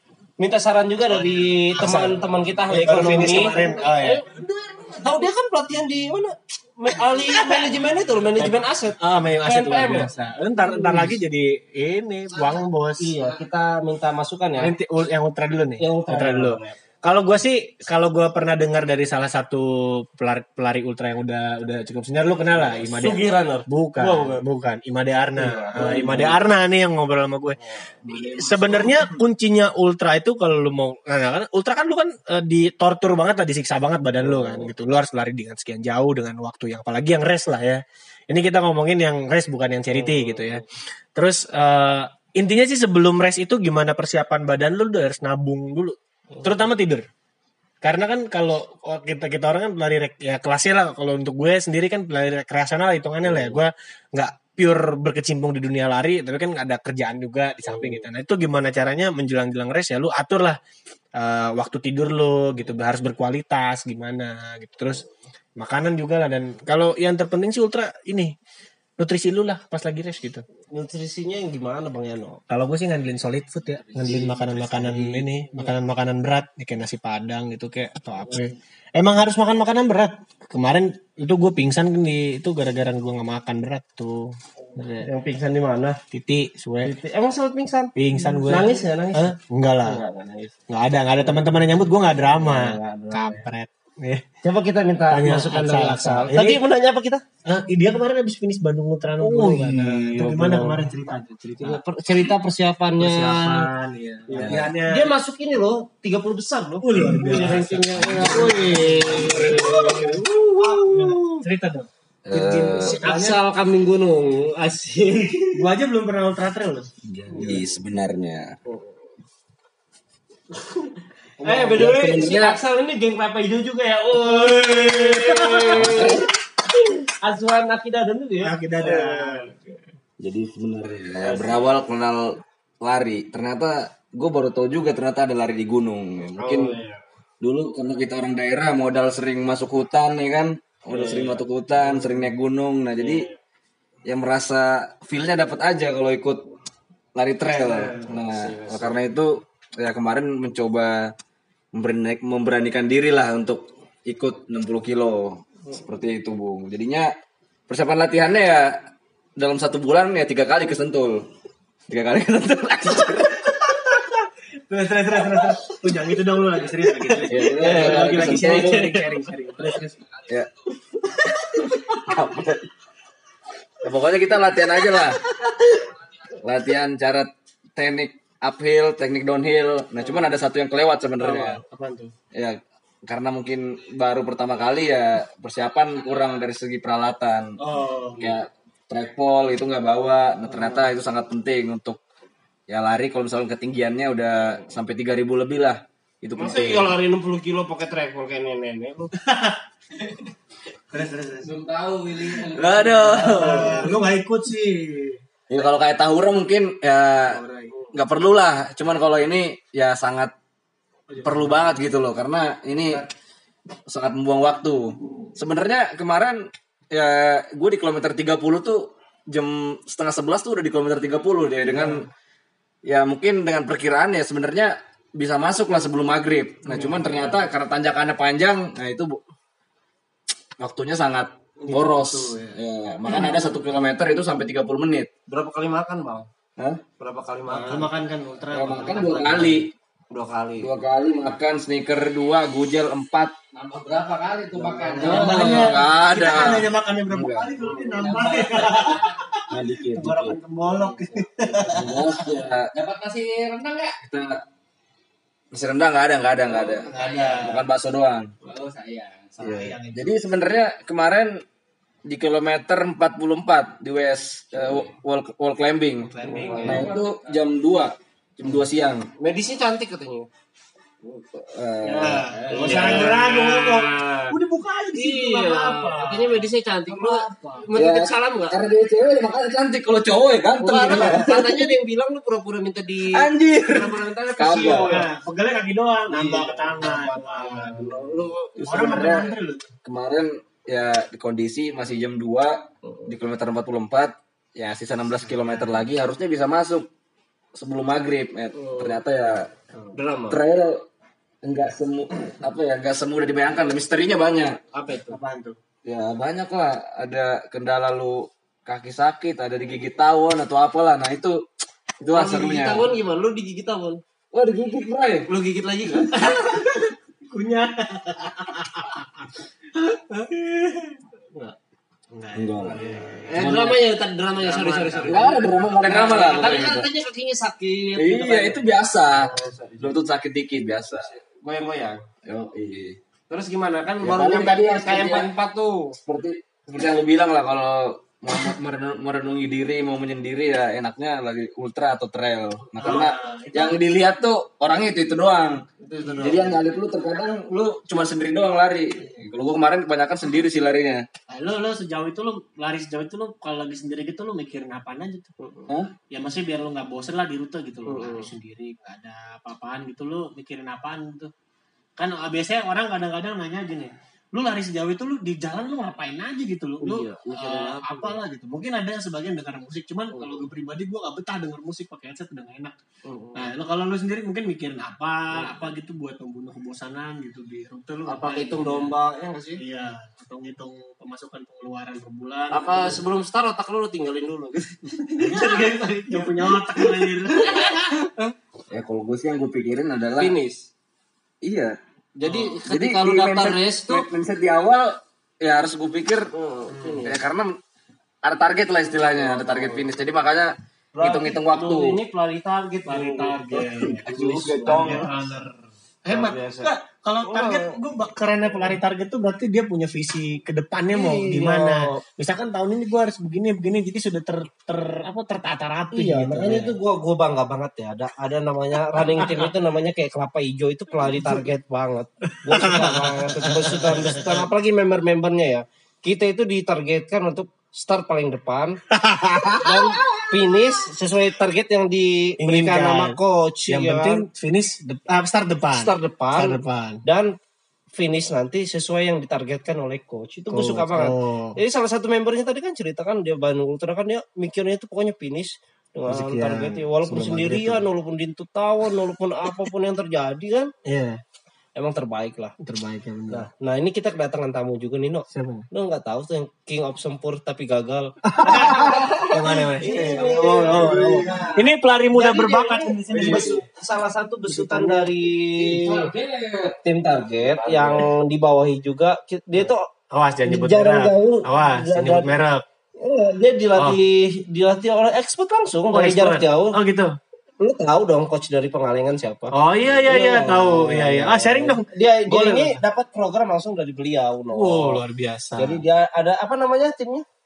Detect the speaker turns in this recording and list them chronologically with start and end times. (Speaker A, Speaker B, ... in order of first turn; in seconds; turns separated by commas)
Speaker A: 0.4-11.1, Speaker B: 1.1-4.2, Speaker B: 8.4-13.1, Speaker A: 13.0-14.7, Speaker B: 14.6-27.6, Speaker A: 15.8-16.8, Speaker A: 22.5-24.4, Speaker A: 25.4-26.4, Speaker C: 28.0-29.0, Speaker B: 28.1-40.6, Speaker A: 34.2-34.7, Speaker A: 39.9-40.6, Speaker B: 41.1-47.0, Speaker B: 47.8-60.6, Speaker A: 53.2-53.6, Speaker A: 57.6-58.0, Speaker B: 61.1-65.0, Speaker B: 65.6-68.3, Speaker B: 69.0-70.4, Speaker A: 70.7-72.4, Speaker B: 72.5-85.1, Speaker A: 74.0-75.7, Speaker A: 85.0-86.0, Speaker B: 86.1-86.9, Speaker A: 86.8-90.5, Speaker B: 88.0-90.0, Speaker B: 90.7-94.3, Speaker A: 91.2-93.4, Speaker A: 94.4-97.2, Speaker B: 95.1-96.6, Speaker B: 97.4-101.8, Speaker A: 99.2-100.8, Speaker A: 101.6-103.7, Speaker B: 103.0-105.1, Speaker A: 104.3-111.4, Speaker C: 104.3-104.7, Speaker B: 106.8-111.9, Speaker C: 109.3-109.6, Speaker C: 112.2-113.0, Speaker A: 112.3-115.6, Speaker B: 112.7-113.4, Speaker B: 115.5-116.9, Speaker C: 117.1-118.5, Speaker A: 117.3-117.6, Speaker A: 118.7-118.9, Speaker A: 121.4-126.2, Speaker B: 121.4-121.9, Speaker C: 121.7-122.4, Speaker D: 121.7-122.5, Speaker B: 124.2-126.1, Speaker C: 125.7-126.2, Speaker A: 126.8-129.7, Speaker B: 128.4-129.5, Speaker C: 130.2-136.8, Speaker A: 131.2-131.7, Speaker A: 136.4-137.0, Speaker C: 137.4-143.3, Speaker A: 140.9-142.1, Speaker A: 143.0-143.3, Speaker C: 144.0-146.5, Speaker C: 147.1-151.1, Speaker A: 147.5-149.0, Speaker C: 151.7-157.1, Speaker C: 157.7-158.8, Speaker C: 159.4-161.3, Speaker C: 161.9-163.5, Speaker B: 164.7-169.9, Speaker C: 167.3-169.0, Speaker A: 167.6-168.6, Speaker C: 171.4-172.7, Speaker C: 173.8-175.2, Speaker C: 176.4-181.6, Speaker B: 181.2-182.1, Speaker C: 182.3-187.6, Speaker B: 187.6-188.3, Speaker C: 188.2-192.0, Speaker C: 192.7-196.9, Speaker A: 196.4-199.1, Speaker B: 199.2-199.6, Speaker B: 200.9-201.4, Speaker D: 201.4-203.9, Speaker B: 202.6-205.2, Speaker A: 203.0-203.9, Speaker C: 205.5-207.4, Speaker C: 207.9-210.3, Speaker C: 211.2-213.1, Speaker C: 213.9-222.1, Speaker A: 221.7-222.0, Speaker C: 222.8-229.2, Speaker A: 226.7-227.1, Speaker C: 230.6-235.1, Speaker A: 231.6-232.6, Speaker A: 235.3-236.3, Speaker C: 236.6-236.8, Speaker A: 237.0-237.9, Speaker B: 237.5-239.6, Speaker C: 238.5-239.7, Speaker A: 240.1-240.7, Speaker C: 240.6-243.3, Speaker D: 243.5-245.8, Speaker A: 244.5-245.7, Speaker C: 244.6-247.5, Speaker B: 245.0-249.0, Speaker A: 247.6-248.0, Speaker D: 247.9-249.3, Speaker C: 249.5-250.3, Speaker A: 249.5-250.4, Speaker B: 249.9-251.9, Speaker D: 250.7-254.0, Speaker C: 251.7-252.7, Speaker C: 254.0-254.4, Speaker C: 255.5-258.3, Speaker D: 256.6-257.6, Speaker B: 256.9-257.6, Speaker D: 258.4-259.9, Speaker C: 259.4-261.4, Speaker C: 262.1-266.1, Speaker B: 266.0-266.9, Speaker A: 266.2-266.9, Speaker D: 266.4-267.4, Speaker C: 266.6-269.1, Speaker A: 269.2-270.3, Speaker C: 271.0-273.2, Speaker A: 271.9-274.3, Speaker B: 272.0-277.6, Speaker D: 272.4-273.1, Speaker A: 274.9-278.6, Speaker C: 277.7-281.7, Speaker A: 280.6-285.1, Speaker C: 283.1-285.1, Speaker B: 284.4-287.9, Speaker A: 286.1-289.2, Speaker C: 288.6-289.3, Speaker B: 288.6-289.7, Speaker C: 289.8-296.9, Speaker C: 297.5-299.5, Speaker A: 298.5-299.0, Speaker A: 299.9-300.4, Speaker C: 300.3-300.9, Speaker C: 301.4-304.6, Speaker B: 304.7-305.2, Speaker A: 304.8-305.6, Speaker C: 305.8-311.4, Speaker C: 312.0-312.9, Speaker A: 312.1-314.0, Speaker C: 314.3-315.3, Speaker A: 315.2-316.3, Speaker B: 316.1-319.1, Speaker B: 319.8-321.0, Speaker B: 322.1-323.5, Speaker C: 322.3-323.8, Speaker A: 323.3-330.0, Speaker B: 324.4-325.5, Speaker C: 325.0-326.9, Speaker C: 327.9-331.1, Speaker A: 330.9-332.0, Speaker C: 332.2-333.0, Speaker A: 333.3-335.9, Speaker C: 334.0-335.3, Speaker C: 336.0-351.1, Speaker B: 342.8-343.7, Speaker A: 345.8-346.6, Speaker B: 351.3-355.3, Speaker A: 355.4-355.7, Speaker B: 356.1-361.3, Speaker A: 357.9-358.3, Speaker B: 362.0-372.8, Speaker A: 366.8-368.2, Speaker A: 370.1-370.5, Speaker A: 373.0-373.5, Speaker B: 373.3-378.9, Speaker A: 378.1-379.6, Speaker B: 379.6-383.0, Speaker A: 382.5-387.8, Speaker B: 385.2-387.8, Speaker C: 388.7-390.4, Speaker A: 390.2-390.7, Speaker C: 391.4-396.3, Speaker A: 392.2-394.1, Speaker A: 396.3-397.2, Speaker C: 397.0-397.6, Speaker C: 398.2-402.0, Speaker A: 399.1-399.9, Speaker A: 400.9-405.2, Speaker B: 402.9-404.1, Speaker C: 403.6-405.1, Speaker B: 404.6-405.5, Speaker B: 406.1-416.7, Speaker A: 406.1-406.7, Speaker A: 407.2-407.8, Speaker A: 410.9-412.0, Speaker A: 415.9-428.8, Speaker B: 418.9-419.5, Speaker B: 422.5-424.4, Speaker B: 428.9-430.2, Speaker A: 429.6-434.3, Speaker B: 432.4-433.2, Speaker B: 433.7-437.0, Speaker A: 435.7-437.3, Speaker A: 437.9-450.7, Speaker B: 440.5-441.6, Speaker B: 446.1-447.8, Speaker B: 450.8-451.2, Speaker A: 451.7-452.5, Speaker B: 452.6-453.4, Speaker A: 453.3-458.8, Speaker B: 455.3-455.6, Speaker B: 458.4-463.6, Speaker A: 459.8-461.6, Speaker A: 462.1-466.1, Speaker C: 463.1-463.5, Speaker D: 465.7-466.4, Speaker C: 465.9-466.7, Speaker A: 466.8-469.9, Speaker C: 467.4-468.0, Speaker B: 470.1-472.6, Speaker A: 470.5-472.3, Speaker A: 473.0-476.8, Speaker B: 475.9-477.1, Speaker A: 477.6-485.0, Speaker B: 479.5-482.8, Speaker B: 484.5-485.8, Speaker A: 485.6-487.2